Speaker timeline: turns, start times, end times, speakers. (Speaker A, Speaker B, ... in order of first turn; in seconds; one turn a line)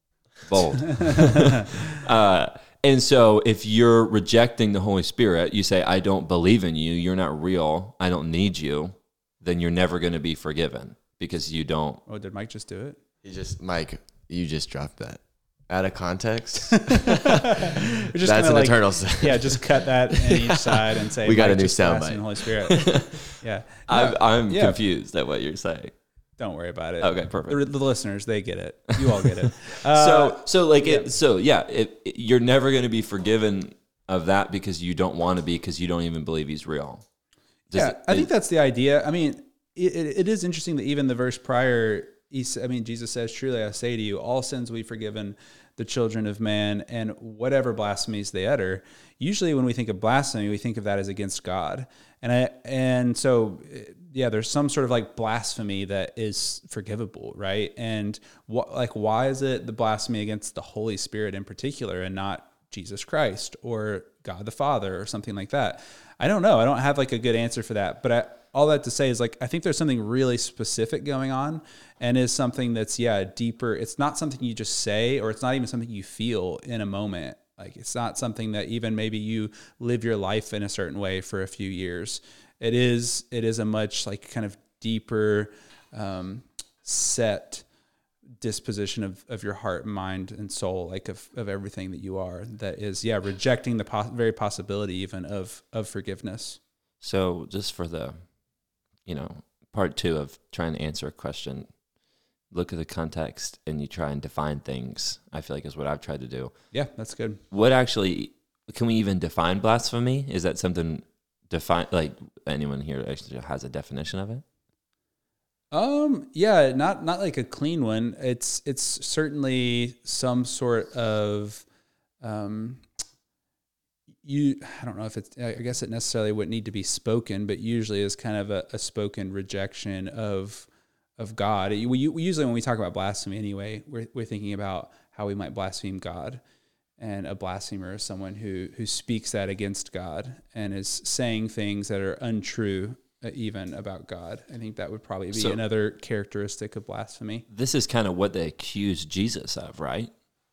Speaker A: 0.5-12.0
Speaker B: 12.1-13.0
Speaker C: 13.2-19.7
Speaker B: 16.9-24.8
Speaker C: 21.2-22.2
Speaker A: 22.8-23.3
Speaker A: 23.9-25.9
Speaker B: 26.4-31.1
Speaker A: 27.0-27.6
Speaker A: 29.9-37.1
Speaker A: 37.7-38.3
Speaker B: 37.7-87.7
Speaker B: 88.4-96.6
Speaker A: 97.0-98.3
Speaker A: 99.0-101.8
Speaker A: 102.5-106.7
Speaker B: 106.7-107.4
Speaker A: 107.5-114.4
Speaker B: 115.7-121.7
Speaker B: 122.2-122.8
Speaker B: 124.2-136.4
Speaker B: 137.0-147.5
Speaker A: 145.3-145.6
Speaker A: 147.5-150.1